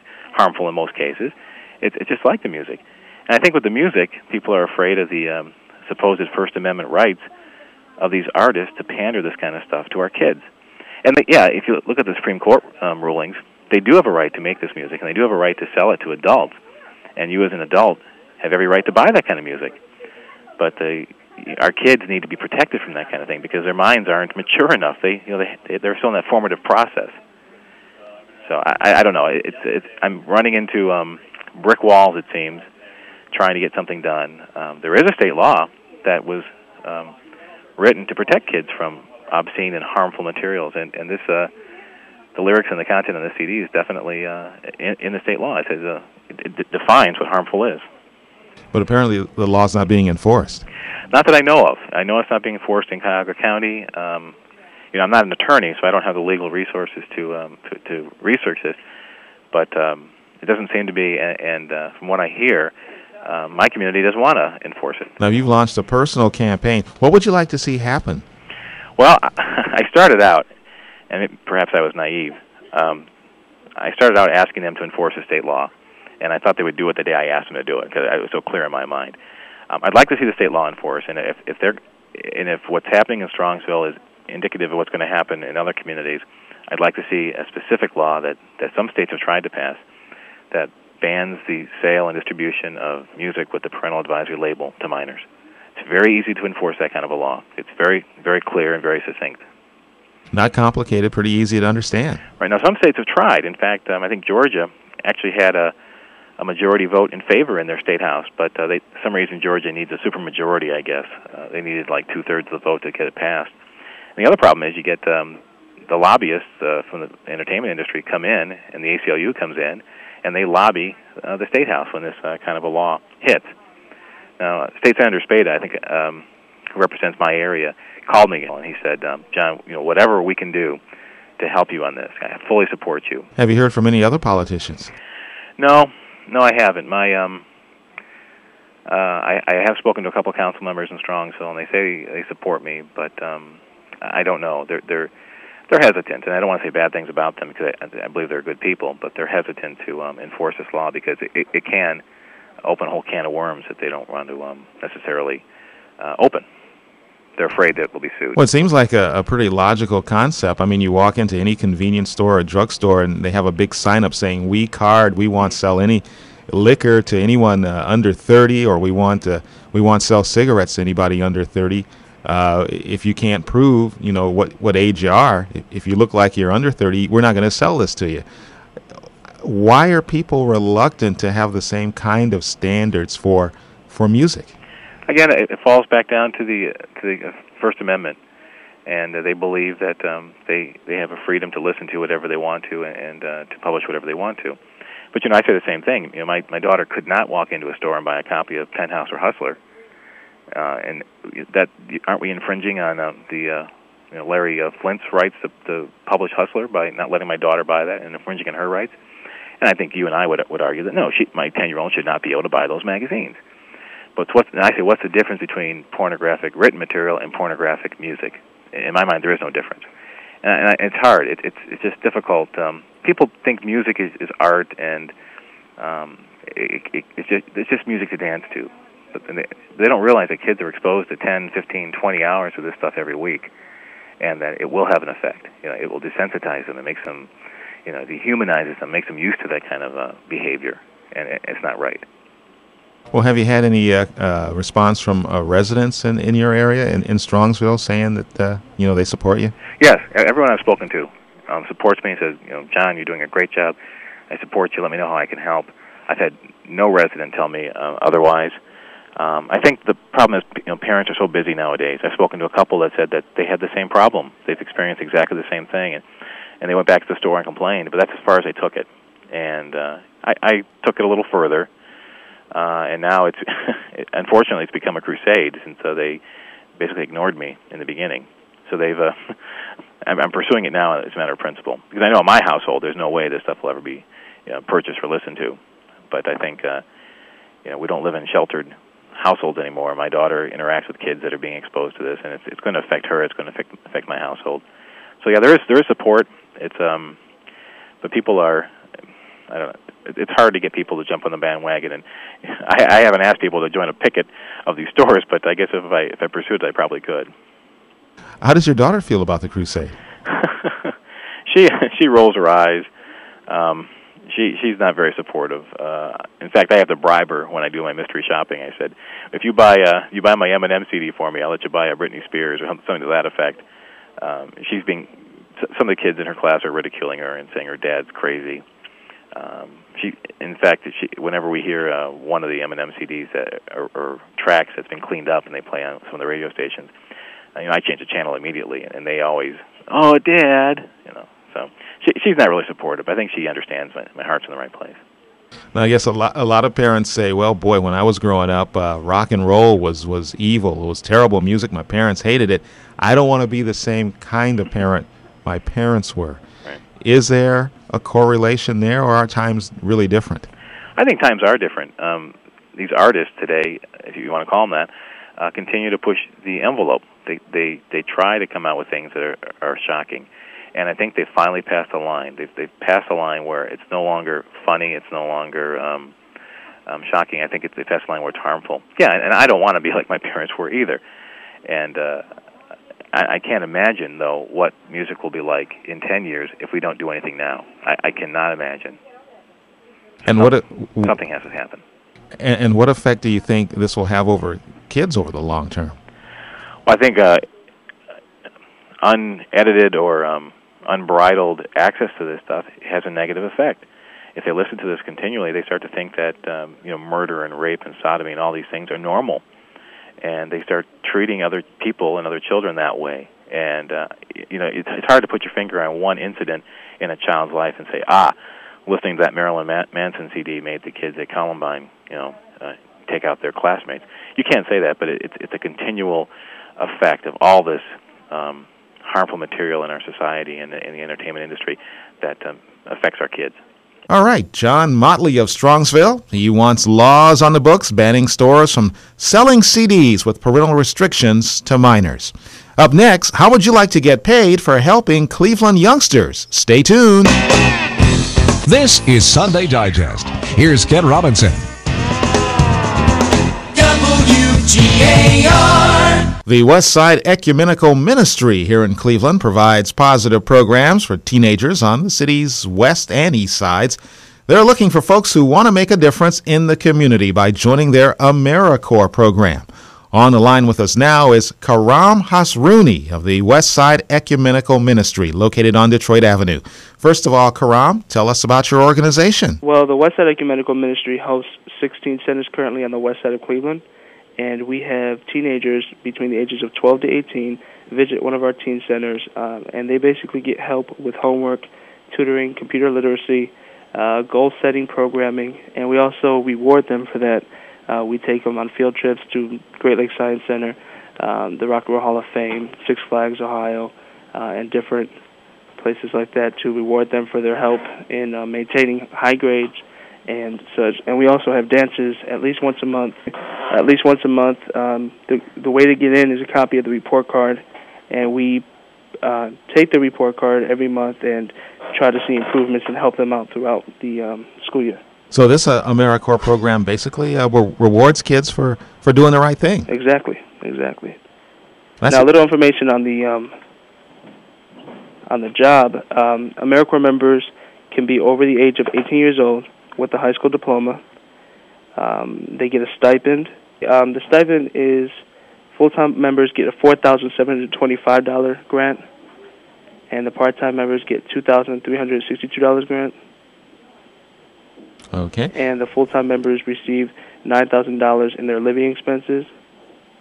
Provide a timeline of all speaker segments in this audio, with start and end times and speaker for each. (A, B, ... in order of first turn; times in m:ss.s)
0:00.3-0:07.2 A
0:08.0-0:10.5 A
0:11.0-0:16.6 A
0:17.2-0:19.8 A
0:20.6-0:27.2 A
0:28.5-0:32.7 A
0:33.3-0:37.1 A
0:37.8-0:41.5 A
0:42.4-0:47.8 A
0:48.7-0:50.6 B
0:51.1-0:54.4 A
0:54.9-0:58.8 A
0:59.5-1:02.7 A
1:03.2-1:05.1 A
1:05.2-1:08.2 B
1:09.0-1:10.5 A
1:11.1-1:13.1 A
1:13.8-1:19.2 A
1:19.7-1:29.8 A
1:30.5-1:39.4 A
1:40.3-1:42.2 B
1:42.4-1:45.7 A
1:46.4-1:53.5 A
1:54.2-2:03.5 A
2:04.4-2:10.8 A
2:11.4-2:13.3 A
2:13.4-2:14.9 B
2:15.6-2:17.4 A
2:18.9-2:25.1 A
2:25.7-2:32.0 A
2:32.6-2:35.4 A
2:36.0-2:36.4 A
2:37.4-2:38.4 A
2:38.4-2:58.2 B
2:59.4-3:04.5 B
3:05.1-3:08.2 A
3:08.9-3:14.6 A
3:15.1-3:19.6 A
3:20.5-3:29.0 A
3:29.6-3:33.4 A
3:34.2-3:39.9 A
3:40.4-3:45.1 A
3:45.8-3:53.5 A
3:54.2-3:57.3 A
3:57.9-4:02.0 A
4:03.1-4:09.5 B
4:09.8-4:13.8 A
4:14.3-4:18.6 A
4:19.2-4:26.0 A
4:26.6-4:31.7 A
4:32.5-4:36.2 A
4:36.8-4:39.4 A
4:40.0-4:45.6 A
4:46.1-4:46.8 A
4:47.6-4:54.6 A
4:55.2-4:57.2 A
4:58.0-4:58.7 A
4:59.5-5:07.3 A
5:08.4-5:10.0 B
5:10.3-5:10.9 A
5:11.5-5:12.9 A
5:13.5-5:23.6 A
5:24.2-5:28.6 A
5:29.4-5:36.9 A
5:37.6-5:45.0 A
5:45.7-5:56.4 B
5:57.0-6:00.5 B
6:01.0-6:16.1 A
6:16.9-6:21.0 A
6:21.6-6:22.2 A
6:23.1-6:29.0 A
6:30.3-6:31.1 B
6:30.3-6:31.8 A
6:32.4-6:36.0 B
6:36.9-6:37.5 A
6:39.0-6:43.8 A
6:44.4-6:49.4 A
6:50.2-6:58.4 A
6:58.9-7:13.6 A
7:14.1-7:27.4 B
7:28.6-7:31.7 C
7:33.8-7:36.3 D
7:36.5-7:59.6 B
7:59.6-8:03.8 E
8:04.4-8:25.1 E
8:25.8-8:38.6 E
8:39.2-8:45.0 E
8:45.3-8:49.9 B
8:49.9-8:51.2 E
8:52.0-8:52.3 B
8:52.1-8:53.5 E
8:55.3-9:01.0 E
9:02.0-9:05.2 E
9:05.7-9:09.0 E
9:10.1-9:13.2 E
9:15.1-9:15.5 B
9:15.5-9:19.5 E